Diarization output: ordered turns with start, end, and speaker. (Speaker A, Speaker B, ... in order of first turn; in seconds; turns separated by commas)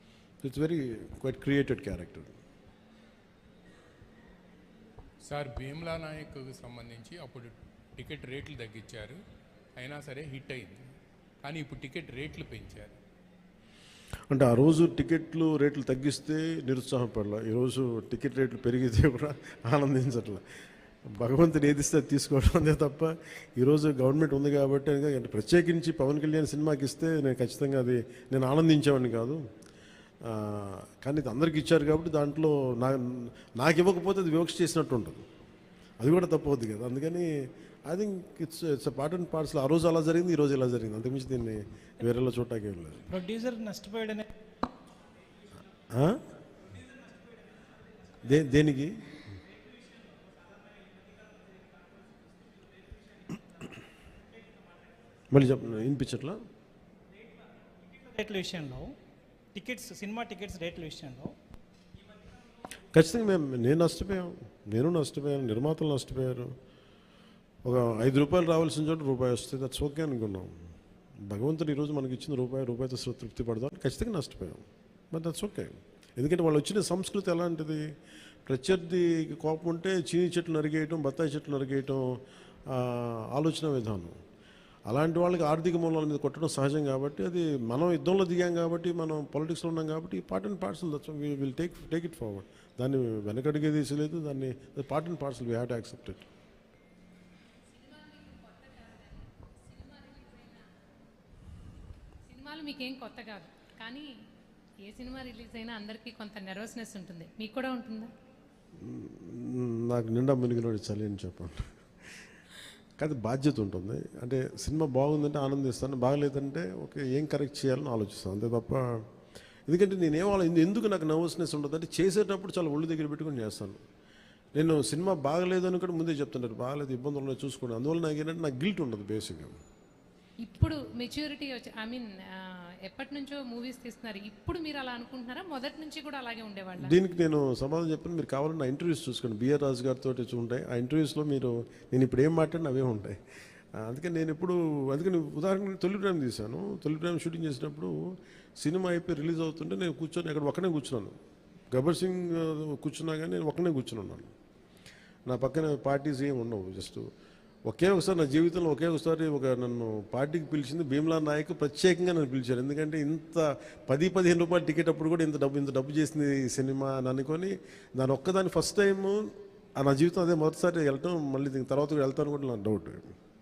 Speaker A: 0.4-2.4, Speaker B: 5.3-9.2, Speaker B: 9.8-10.8, Speaker B: 11.4-13.0, Speaker A: 14.3-20.4, Speaker A: 21.1-29.4, Speaker A: 30.2-35.3, Speaker A: 36.0-37.3, Speaker A: 37.9-43.1, Speaker C: 43.1-44.3, Speaker A: 45.9-46.2, Speaker A: 48.2-49.2, Speaker A: 55.3-56.4, Speaker C: 57.8-59.0, Speaker C: 59.5-61.4, Speaker A: 62.9-66.5, Speaker A: 67.6-70.5, Speaker A: 71.2-77.8, Speaker A: 78.5-84.2, Speaker A: 84.9-96.3, Speaker D: 97.7-100.7, Speaker D: 102.3-104.1, Speaker D: 104.8-108.1, Speaker A: 108.8-111.7, Speaker A: 113.0-119.0, Speaker A: 119.7-123.8, Speaker A: 124.5-129.6, Speaker D: 130.4-137.0, Speaker A: 136.8-143.2, Speaker A: 143.8-148.0, Speaker A: 148.6-151.2, Speaker A: 151.7-154.3, Speaker A: 155.3-157.1, Speaker A: 157.7-173.2